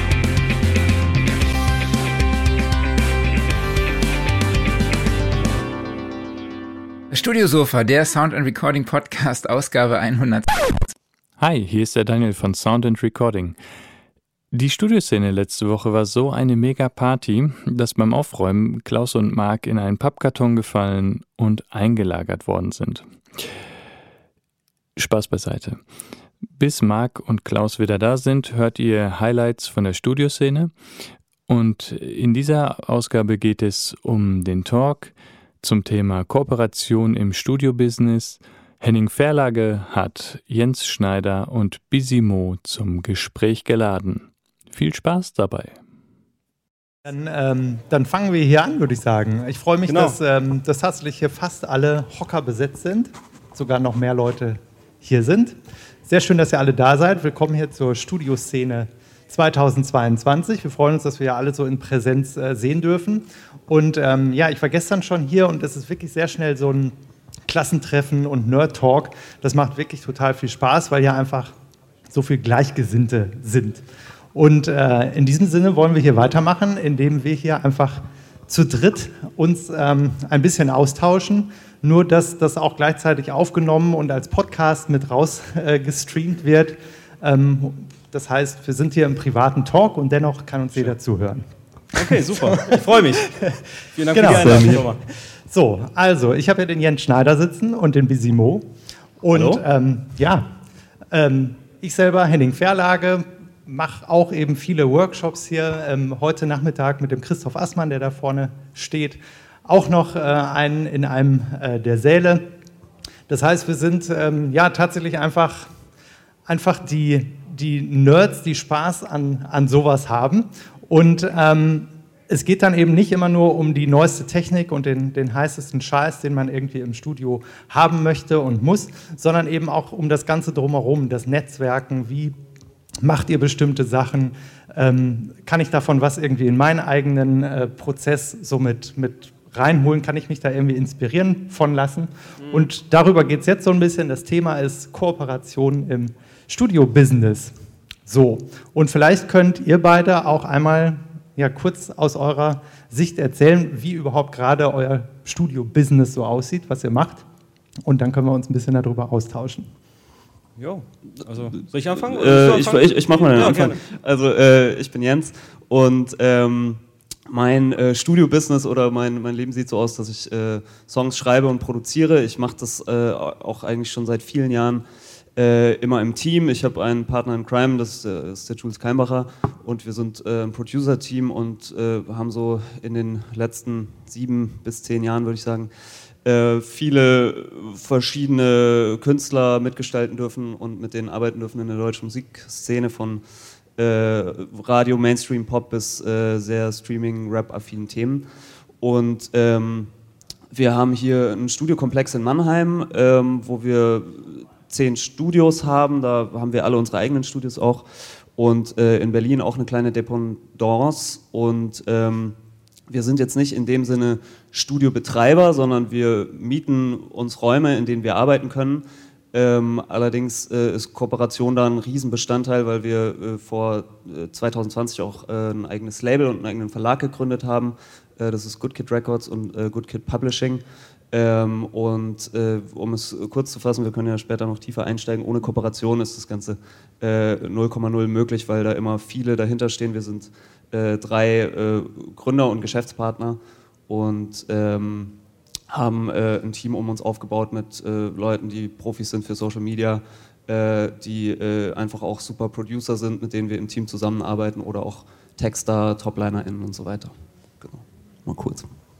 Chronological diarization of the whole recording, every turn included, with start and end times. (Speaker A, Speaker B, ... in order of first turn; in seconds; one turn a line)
Speaker A: 7.1-10.9
Speaker B: 11.4-13.6
Speaker B: 14.5-23.1
Speaker B: 25.0-25.8
Speaker B: 26.6-30.7
Speaker B: 31.5-45.8
Speaker C: 47.0-67.0
Speaker D: 49.9-50.2
Speaker C: 67.5-71.5
Speaker C: 72.1-73.8
Speaker C: 74.3-93.6
Speaker D: 91.9-95.0
Speaker C: 94.1-94.8
Speaker E: 94.2-94.8
Speaker C: 95.5-98.7
Speaker C: 99.2-100.5
Speaker D: 99.3-99.6
Speaker C: 101.1-112.5
Speaker C: 113.3-115.7
Speaker C: 116.5-132.4
Speaker C: 133.0-147.5
Speaker D: 142.4-142.7
Speaker C: 148.1-157.2
Speaker C: 157.9-159.7
Speaker D: 160.6-163.8
Speaker E: 162.0-174.8
Speaker E: 175.4-185.7
Speaker E: 186.2-193.2
Speaker E: 193.8-198.3
Speaker E: 198.8-199.9
Speaker E: 200.5-212.4
Speaker E: 212.9-245.2
Speaker E: 245.7-258.7